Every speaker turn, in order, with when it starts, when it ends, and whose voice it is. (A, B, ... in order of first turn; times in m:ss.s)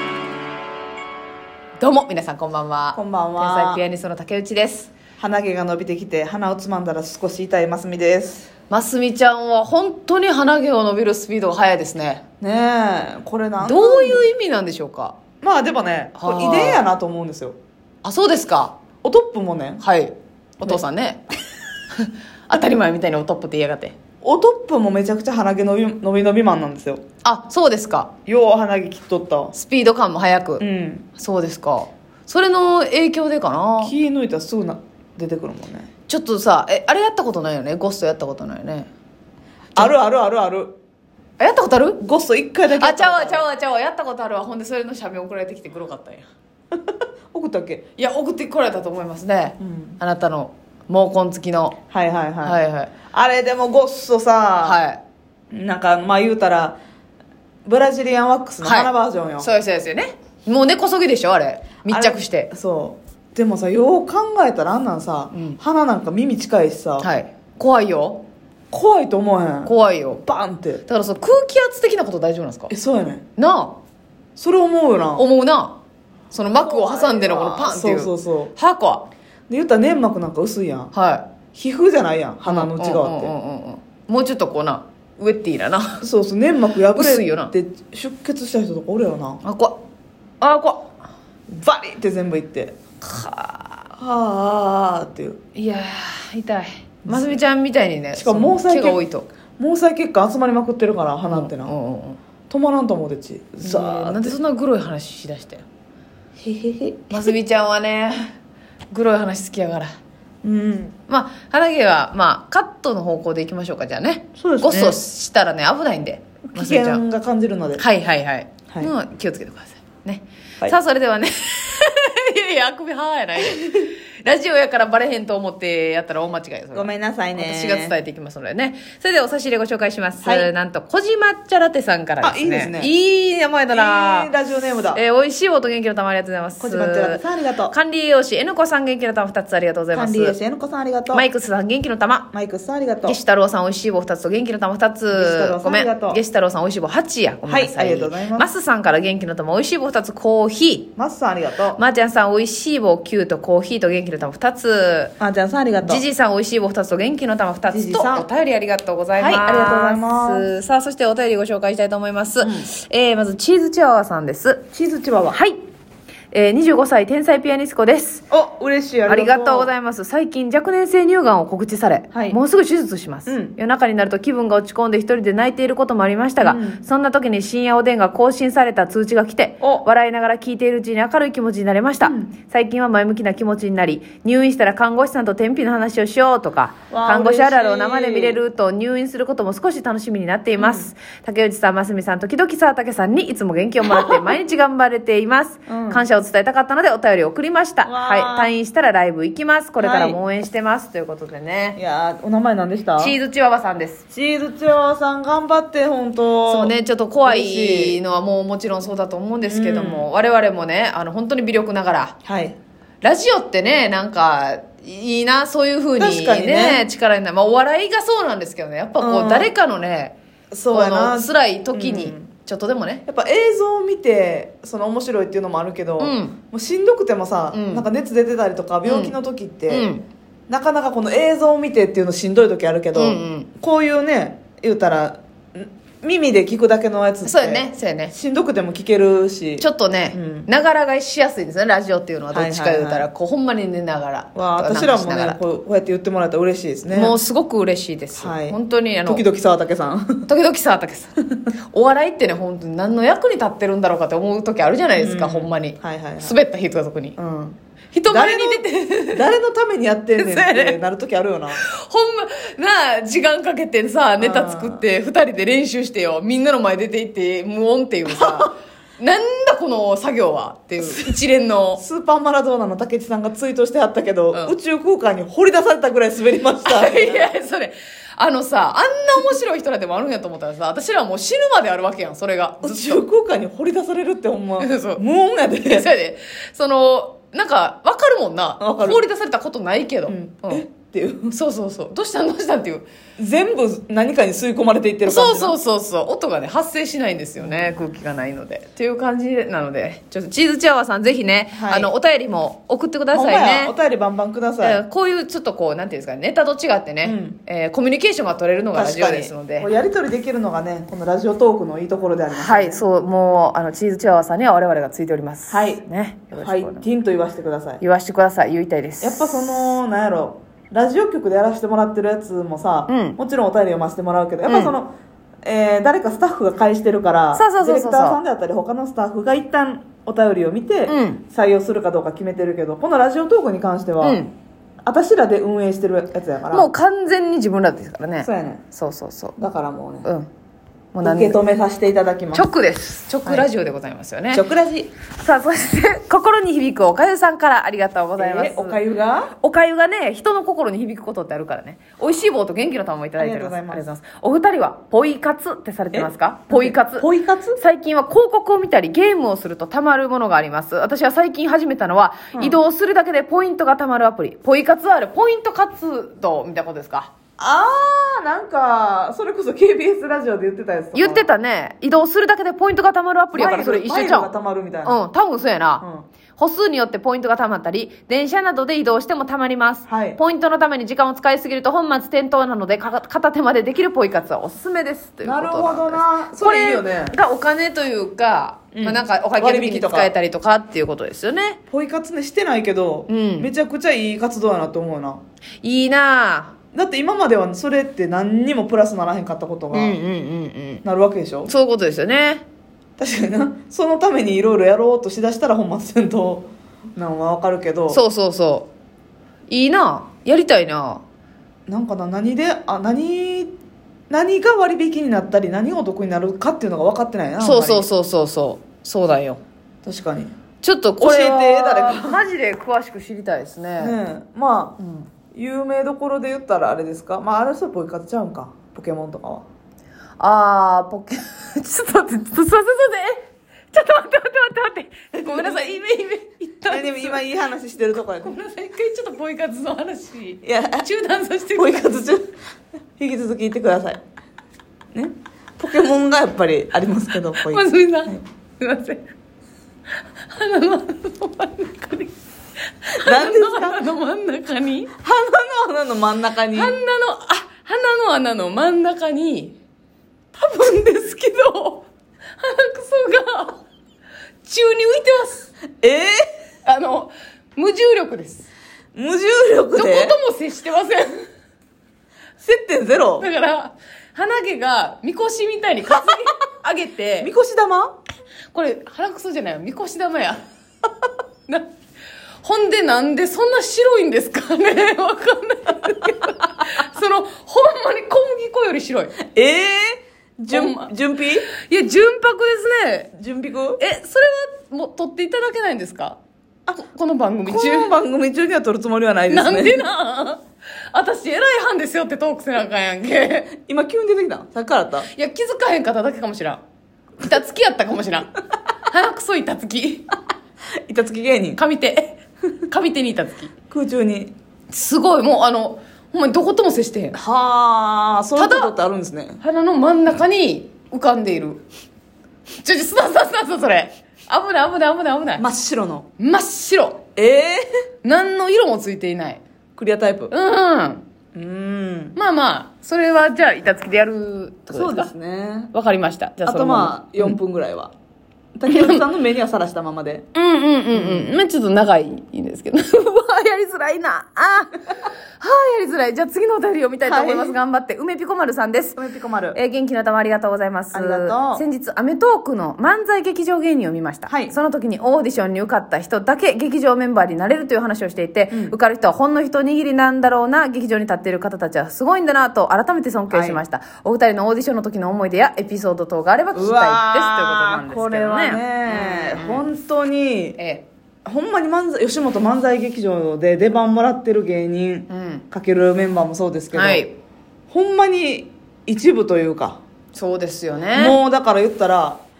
0:01.8-0:04.9 A
0:02.9-0:03.8 B
0:05.2-0:08.5 B
0:08.7-0:12.2 A
0:12.4-0:14.3 B
0:13.6-0:15.2 A
0:15.4-0:17.6 B
0:16.2-0:16.8 A
0:18.0-0:18.8 A
0:19.0-0:19.8 B
0:19.8-0:21.2 A
0:21.9-0:24.0 A
0:24.2-0:27.0 B
0:27.2-0:28.1 A
0:28.3-0:29.5 B
0:29.5-0:30.6 A
0:30.6-0:31.1 B
0:31.2-0:33.9 A
0:33.8-0:35.9 B
0:36.1-0:38.9 A
0:39.8-0:40.7 B
0:41.4-0:42.0 A
0:42.0-0:43.4 B
0:42.7-0:46.3 A
0:46.8-0:47.8 B
0:48.0-0:51.8 A
0:49.6-0:50.0 B
0:51.9-0:54.8 B
0:52.4-0:52.9 A
0:54.6-0:55.0 A
0:55.5-0:56.8 B
0:57.6-0:59.5 B
0:58.6-1:02.5 A
1:01.9-1:07.1 B
1:05.3-1:05.6 A
1:07.0-1:08.2 A
1:08.7-1:09.7 B
1:09.6-1:10.2 A
1:10.2-1:10.8 B
1:10.8-1:12.7 A
1:12.7-1:13.2 B
1:13.4-1:13.8 A
1:14.4-1:15.2 B
1:15.2-1:15.8 A
1:16.3-1:19.1 A
1:16.5-1:18.5 B
1:19.5-1:20.9 B
1:20.9-1:21.3 A
1:21.5-1:23.3 B
1:22.4-1:26.0 A
1:26.0-1:29.4 B
1:26.9-1:27.5 A
1:29.4-1:29.8 A
1:30.4-1:30.9 A
1:31.5-1:32.8 B
1:33.0-1:33.9 A
1:34.0-1:35.4 B
1:35.5-1:39.3 A
1:37.0-1:37.4 B
1:38.1-1:39.0 B
1:39.6-1:41.7 B
1:41.3-1:42.2 A
1:42.5-1:44.4 B
1:43.6-1:45.6 A
1:46.4-1:47.3 B
1:47.1-1:48.3 A
1:48.9-1:49.9 A
1:50.4-1:51.0 B
1:51.1-1:57.0 A
1:54.4-1:55.0 B
1:56.5-1:57.8 B
1:57.8-2:14.3 A
2:06.7-2:08.0 B
2:10.2-2:10.5 B
2:12.2-2:12.9 B
2:13.7-2:15.0 B
2:14.9-2:20.4 A
2:16.6-2:17.7 B
2:19.9-2:21.2 B
2:21.1-2:22.3 A
2:22.3-2:23.2 B
2:23.0-2:30.9 A
2:25.1-2:26.2 B
2:27.4-2:28.5 B
2:31.0-2:31.8 B
2:31.8-2:35.1 A
2:35.2-2:36.0 B
2:35.8-2:44.7 A
2:37.7-2:38.3 B
2:39.2-2:40.4 B
2:42.4-2:42.7 B
2:44.7-2:45.4 B
2:45.3-2:45.6 A
2:46.3-2:48.2 A
2:48.3-2:49.7 B
2:49.1-3:21.8 A
2:52.1-2:52.4 B
2:53.3-2:53.5 B
2:56.4-2:56.8 B
2:59.6-2:59.8 B
3:02.0-3:02.3 B
3:06.9-3:08.4 B
3:10.6-3:10.9 B
3:15.7-3:16.0 B
3:17.8-3:18.5 B
3:19.8-3:20.2 B
3:21.8-3:23.2 B
3:23.0-3:24.0 A
3:24.1-3:28.0 B
3:26.5-3:32.2 A
3:29.4-3:30.1 B
3:32.2-3:32.6 B
3:33.0-3:40.2 A
3:36.0-3:36.8 B
3:39.0-3:39.5 B
3:40.5-3:42.3 B
3:40.7-3:43.0 A
3:43.1-3:49.9 B
3:46.0-3:46.4 A
3:47.5-3:47.8 A
3:48.8-3:49.2 A
3:49.7-3:50.0 A
3:50.5-4:00.5 B
3:52.9-3:53.5 A
3:57.2-3:58.1 A
3:59.6-4:05.4 A
4:02.3-4:03.1 B
4:04.3-4:07.2 B
4:06.9-4:09.2 A
4:08.2-4:10.3 B
4:10.3-4:11.2 A
4:11.7-4:17.2 A
4:15.0-4:16.4 B
4:17.2-4:17.6 B
4:17.9-4:19.3 A
4:18.1-4:21.6 B
4:20.1-4:20.8 A
4:21.6-4:31.8 A
4:24.2-4:24.8 B
4:28.1-4:28.5 B
4:31.8-4:37.3 B
4:36.6-4:43.0 A
4:42.6-4:45.9 B
4:44.6-4:45.0 A
4:45.6-4:50.6 A
4:48.6-4:49.0 B
4:50.0-4:51.4 B
4:51.3-4:52.8 A
4:53.2-4:55.6 B
4:55.0-5:03.7 A
4:57.4-4:57.9 B
5:01.5-5:01.9 B
5:03.1-5:04.8 B
5:04.6-5:09.7 A
5:07.0-5:07.4 B
5:08.7-5:12.8 B
5:12.3-5:16.8 A
5:15.5-5:17.8 B
5:17.8-5:19.8 A
5:19.0-5:34.2 B
5:22.9-5:23.2 A
5:24.5-5:24.8 A
5:27.3-5:28.2 A
5:30.9-5:31.2 A
5:34.0-5:34.3 A
5:34.8-5:36.7 B
5:36.5-5:39.4 A
5:38.2-5:38.6 B
5:39.4-5:40.1 B
5:40.0-5:40.3 A
5:40.9-5:41.4 A
5:41.0-5:42.5 B
5:42.3-5:44.4 A
5:44.3-5:44.9 B
5:45.2-5:48.8 A
5:48.2-5:49.3 B
5:49.3-5:57.1 A
5:53.2-5:53.9 B
5:55.9-5:57.6 B
5:57.6-6:07.1 A
6:02.3-6:02.6 B
6:07.4-6:11.3 B
6:10.9-6:14.3 A
6:13.3-6:15.0 B
6:14.8-6:15.8 A
6:15.8-6:16.1 B
6:16.4-6:31.6 A
6:19.9-6:20.2 B
6:25.2-6:27.2 B
6:28.7-6:30.1 B
6:31.7-6:35.2 B
6:33.1-6:33.5 A
6:35.6-6:36.5 A
6:36.7-6:40.0 B
6:39.7-6:40.8 A
6:40.8-6:41.5 B
6:41.5-6:42.4 A
6:43.0-6:48.0 B
6:47.9-6:48.7 A
6:49.5-6:51.0 A
6:51.7-6:53.5 B
6:54.1-6:57.9 B
6:57.4-6:59.4 A
6:59.8-7:00.3 B
7:00.6-7:04.0 A
7:01.0-7:02.2 B
7:03.8-7:04.8 B
7:04.8-7:05.0 A
7:05.3-7:09.4 B
7:10.2-7:17.2 A
7:15.1-7:15.8 B
7:16.7-7:18.3 B
7:18.2-7:22.1 A
7:20.4-7:20.9 B
7:21.5-7:22.3 B
7:23.0-7:24.0 B
7:24.9-7:28.2 B
7:27.4-7:29.0 A
7:30.3-7:32.1 A
7:32.8-7:34.9 A
7:33.0-7:33.8 B
7:35.0-7:36.8 B
7:36.5-7:39.6 A
7:40.3-7:41.8 A
7:42.4-7:43.6 A
7:44.4-7:45.5 A
7:45.8-7:46.2 B
7:46.6-7:48.5 A
7:49.0-7:50.2 B
7:49.7-7:51.1 A
7:52.4-7:53.3 B
7:53.2-7:57.3 A
7:57.2-7:57.9 B
7:58.5-8:00.4 A
8:02.4-8:09.1 A
8:09.2-8:11.5 B
8:10.5-8:10.9 A
8:11.5-8:13.1 A
8:13.1-8:13.8 B
8:13.8-8:16.2 A
8:16.7-8:17.9 A
8:17.4-8:19.8 B
8:19.3-8:20.4 A
8:20.9-8:23.5 A
8:23.6-8:25.1 B
8:25.1-8:26.6 A
8:27.2-8:30.1 A
8:30.8-8:31.6 B
8:31.6-8:33.5 A
8:33.7-8:34.3 B
8:34.7-8:37.2 A
8:37.1-8:39.4 B
8:38.4-8:38.7 A
8:39.4-8:41.6 A
8:42.6-8:45.4 A
8:45.4-8:46.1 B
8:46.2-8:47.0 A
8:47.2-8:47.6 B
8:48.0-8:49.4 A
8:49.8-8:50.3 B
8:50.3-8:51.0 A
8:51.3-8:52.2 B
8:52.2-8:55.1 A
8:54.7-8:55.7 B
8:55.7-8:57.4 A
8:56.4-8:57.9 B
8:58.6-9:00.2 B
8:58.7-8:59.0 A
9:00.3-9:09.0 A
9:00.9-9:01.3 B
9:07.0-9:07.6 B
9:09.0-9:09.6 B
9:09.5-9:29.6 A
9:10.9-9:11.6 B
9:14.3-9:14.5 B
9:18.5-9:18.7 B
9:23.3-9:23.6 B
9:26.5-9:30.6 B
9:30.6-9:30.8 A
9:31.2-9:37.0 B
9:35.1-9:35.4 A
9:36.7-9:37.1 A
9:37.7-9:39.8 B
9:40.1-9:41.2 A
9:40.9-9:42.2 B